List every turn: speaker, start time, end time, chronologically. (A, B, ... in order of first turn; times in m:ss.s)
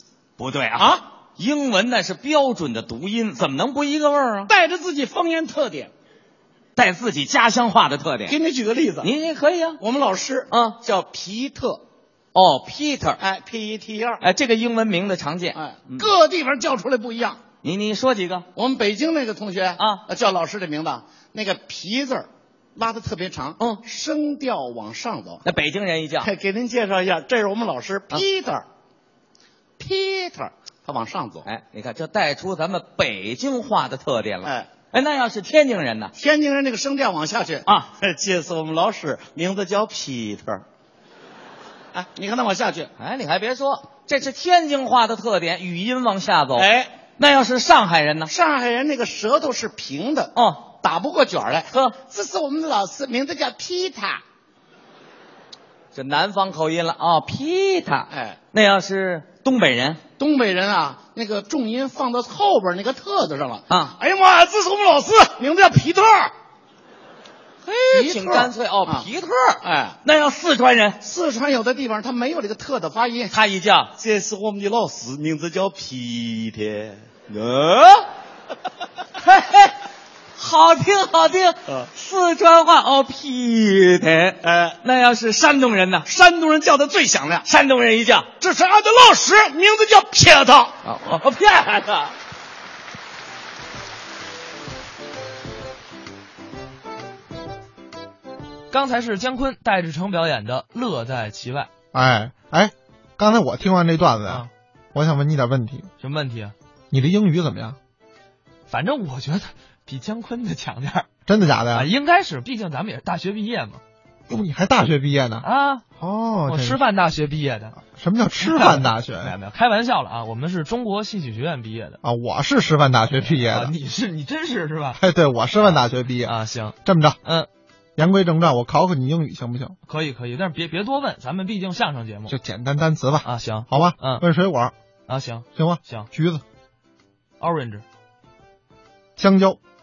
0:00.4-0:04.5 A
0:00.8-0:01.0 B
0:04.5-0:05.9 B
0:06.8-0:08.4 A
0:08.2-0:09.1 B
0:09.0-0:09.8 A
0:09.8-0:11.8 B
0:10.5-0:10.8 A
0:12.3-0:13.2 A
0:13.2-0:14.3 B
0:14.2-0:16.1 A
0:15.5-0:17.4 B
0:17.6-0:18.5 A
0:18.5-0:25.4 B
0:19.8-0:20.0 A
0:25.4-0:26.3 A
0:26.2-0:28.6 B
0:29.8-0:31.5 B
0:31.4-0:36.1 A
0:34.4-0:34.7 B
0:36.1-0:40.6 B
0:41.9-0:42.9 B
0:43.0-0:48.3 A
0:46.5-0:46.9 B
0:48.2-0:54.2 B
0:50.3-0:50.6 A
0:55.9-1:00.0 A
0:58.1-0:58.4 B
1:00.2-1:06.3 B
1:03.7-1:04.0 A
1:07.6-1:11.0 A
1:07.9-1:09.1 B
1:09.6-1:10.0 B
1:11.0-1:13.3 B
1:13.3-1:13.9 A
1:14.0-1:17.0 B
1:17.3-1:18.1 A
1:19.2-1:19.7 A
1:20.4-1:26.1 A
1:24.4-1:24.8 B
1:26.0-1:27.5 B
1:27.4-1:28.3 A
1:28.4-1:30.8 B
1:30.8-1:32.1 A
1:38.7-1:41.7 C
1:41.9-1:45.9 D
1:46.0-1:46.5 C
1:46.9-1:47.8 D
1:48.7-1:51.1 C
1:51.2-1:51.9 D
1:51.7-1:53.8 C
1:54.3-1:55.4 D
1:55.4-1:55.8 C
1:56.0-1:56.8 D
1:56.5-1:57.8 C
1:57.9-1:59.4 D
1:58.4-2:02.0 C
2:02.0-2:03.7 D
2:03.2-2:05.0 C
2:05.0-2:07.2 D
2:05.6-2:07.5 C
2:08.0-2:09.8 D
2:09.8-2:12.3 C
2:12.3-2:14.7 D
2:13.2-2:14.2 C
2:15.1-2:16.1 C
2:15.5-2:16.4 D
2:17.4-2:17.8 C
2:19.2-2:19.6 D